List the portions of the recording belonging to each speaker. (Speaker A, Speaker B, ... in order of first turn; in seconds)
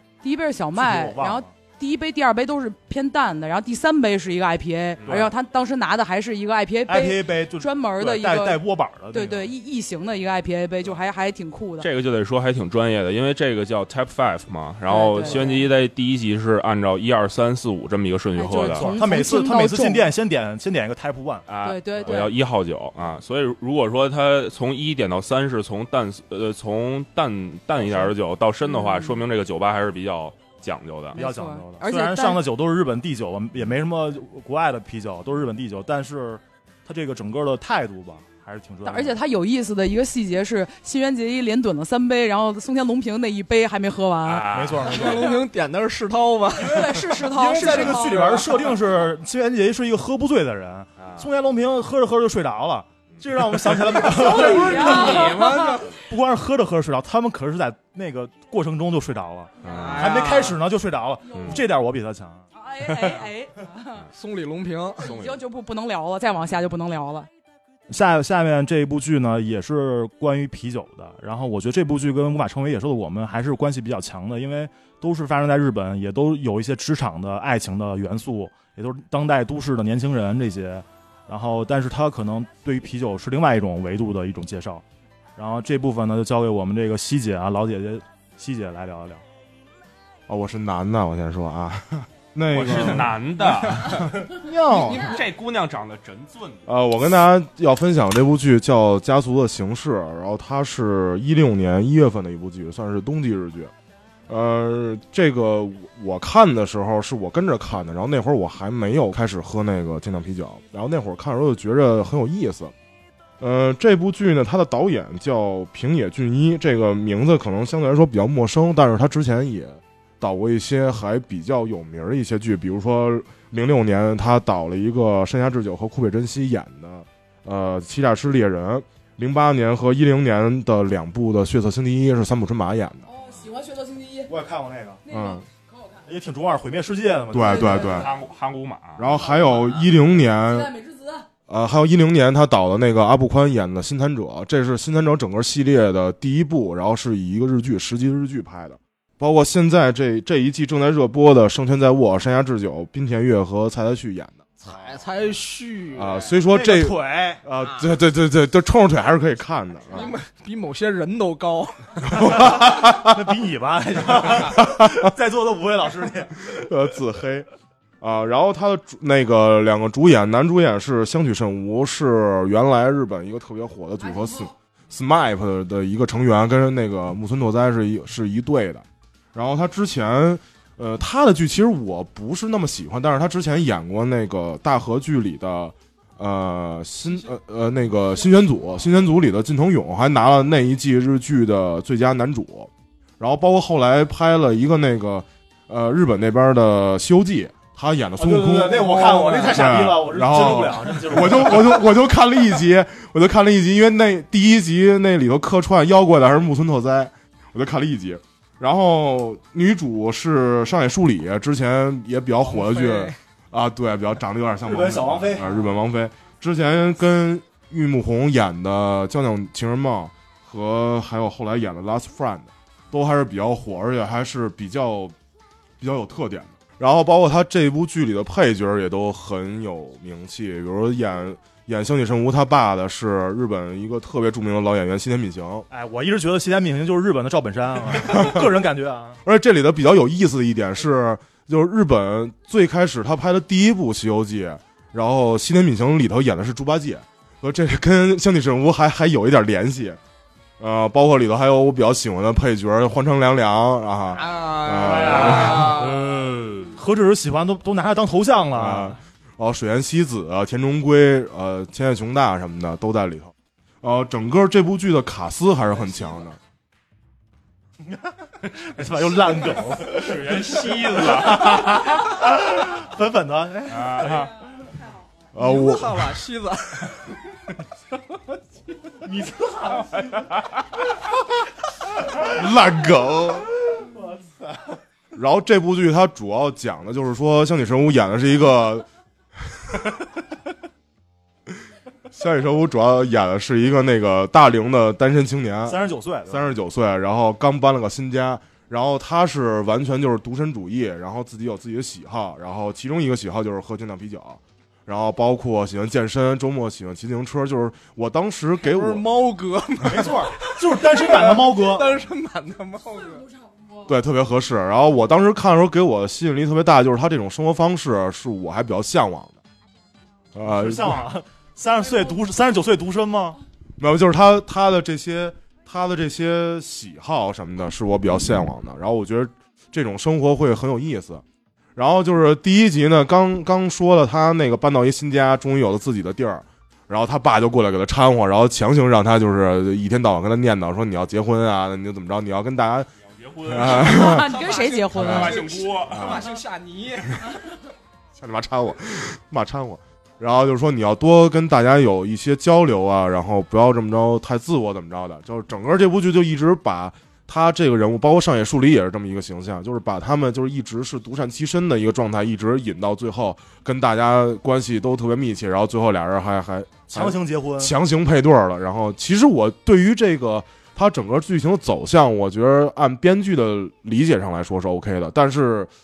Speaker A: 0.2-11.9, 14.9-15.6, 18.4-20.1, 21.6-22.3, 28.6-29.2, 31.1-32.4, 38.8-45.4, 46.5-48.4, 54.0-55.9, 61.3-61.6, 62.5-64.0, 65.0-67.3, 133.1-134.3, 135.1-136.1, 137.4-138.1, 139.3-139.7, 140.3-141.3, 343.7-345.4
Speaker B: 0.7-1.5, 5.0-5.3, 6.9-9.5, 18.7-21.4, 27.8-28.1, 31.1-39.2, 44.5-45.2, 47.2-55.4, 56.0-62.5, 67.9-84.8, 85.3-89.2, 92.5-92.9, 94.4-95.0, 134.3-135.0, 136.1-138.1, 156.5-157.4, 162.2-166.5, 198.2-201.9, 214.6-215.6, 235.7-239.2, 254.8-259.0, 267.8-274.3, 279.0-280.3, 283.9-284.2, 295.6-296.5, 309.8-312.0, 320.4-323.4, 366.9-367.8
Speaker C: 5.0-5.3, 11.8-18.9, 21.5-31.2, 44.2-45.1, 51.0-51.3, 59.6-60.2, 61.3-61.6, 65.0-65.3, 92.5-96.7, 137.7-139.1, 269.8-272.0, 273.7-274.3, 280.0-280.4, 343.1-344.1, 344.9-346.2
Speaker D: 44.8-48.7, 54.1-56.0, 59.7-60.6, 64.1-65.2, 93.8-95.2, 154.6-156.3, 159.9-162.2, 212.4-213.2, 254.1-256.0, 275.4-277.1, 308.6-313.3, 344.0-347.3
Speaker E: 90.3-93.1, 96.7-103.7, 104.3-112.7, 113.4-133.1, 135.1-135.4, 137.3-138.1, 139.0-140.7, 141.5-154.6, 155.9-160.2, 162.0-163.2, 164.2-165.1, 166.4-167.5, 168.0-225.1, 225.8-235.7, 238.0-238.4, 239.2-250.0, 250.6-255.9, 258.5-266.4, 275.3-276.2, 282.1-283.5, 285.1-288.9, 289.6-290.0, 292.1-309.1, 313.8-319.4, 320.3-321.0, 323.8-331.2, 331.8-342.9, 343.4-344.3, 345.0-345.3, 345.9-346.3, 348.1-375.7